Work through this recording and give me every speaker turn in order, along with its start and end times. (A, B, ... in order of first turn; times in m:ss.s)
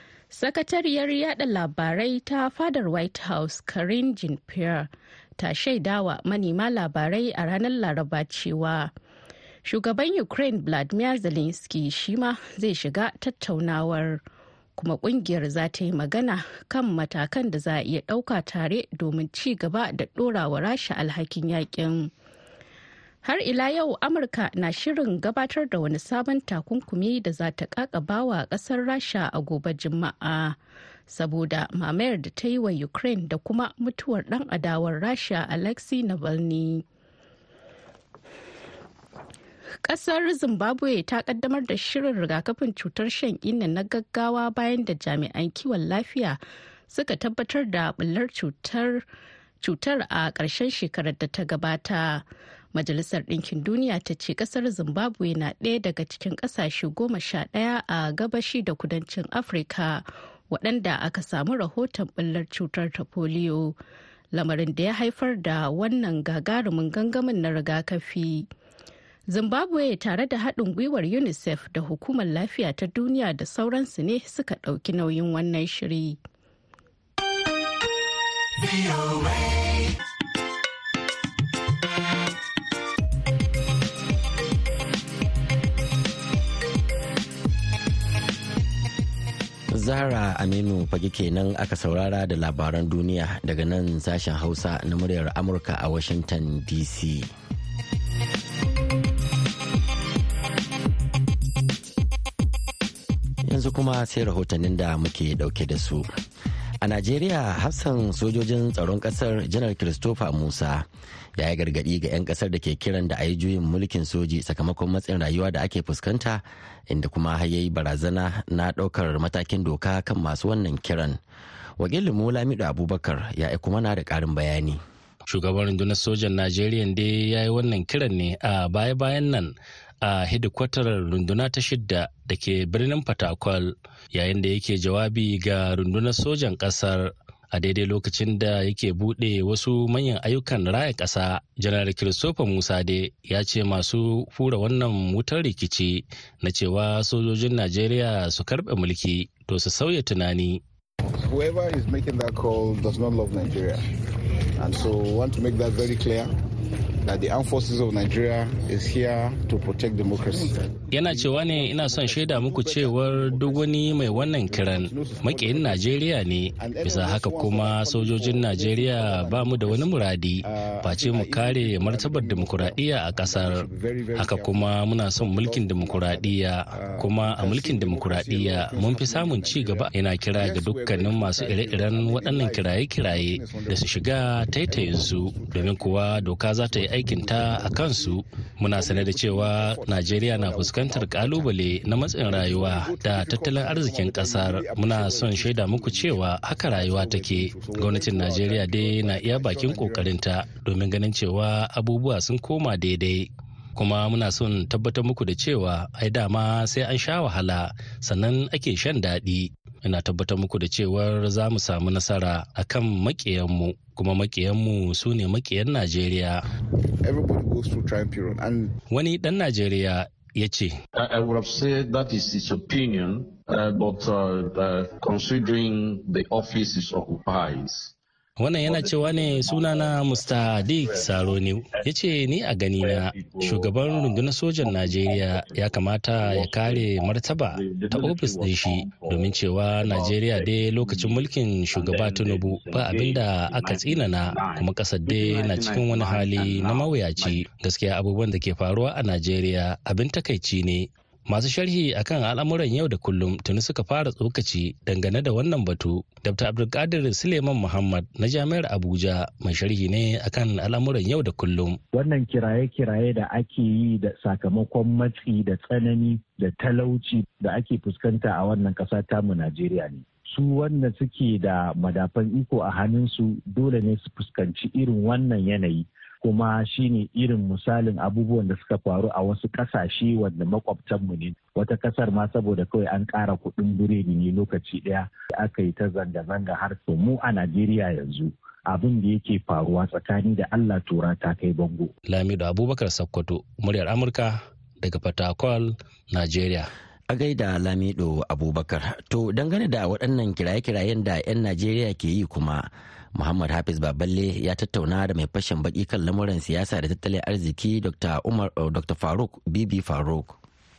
0:00.3-0:08.9 A
0:09.6-0:14.2 A
0:14.8-0:22.1 A
0:23.2-0:30.6 A
0:31.1-0:36.8 A
0:39.8-0:49.0 A
0:49.6-1:03.8 A
1:04.3-1:08.5 A
1:09.3-1:16.2 A
1:29.7-1:37.3 B
1:43.4-1:46.1 B
1:46.8-1:50.9 B
1:51.4-2:01.2 B
2:01.8-2:04.8 B
2:05.3-2:30.6 C
2:31.2-2:33.8 D
2:34.6-2:36.3 D
2:37.1-2:46.0 D
2:40.9-2:53.7 C
2:46.6-2:49.9 D
2:50.4-3:11.5 D
2:54.2-3:36.4 C
3:12.2-3:20.2 D
3:37.0-3:38.7 D
3:38.9-3:40.8 C
3:41.0-3:47.9 E
3:48.4-4:21.8 C
3:48.6-3:51.9 E
3:52.8-4:07.4 E
4:21.9-4:51.9 F
4:52.1-4:56.7 C
4:57.1-5:10.4 B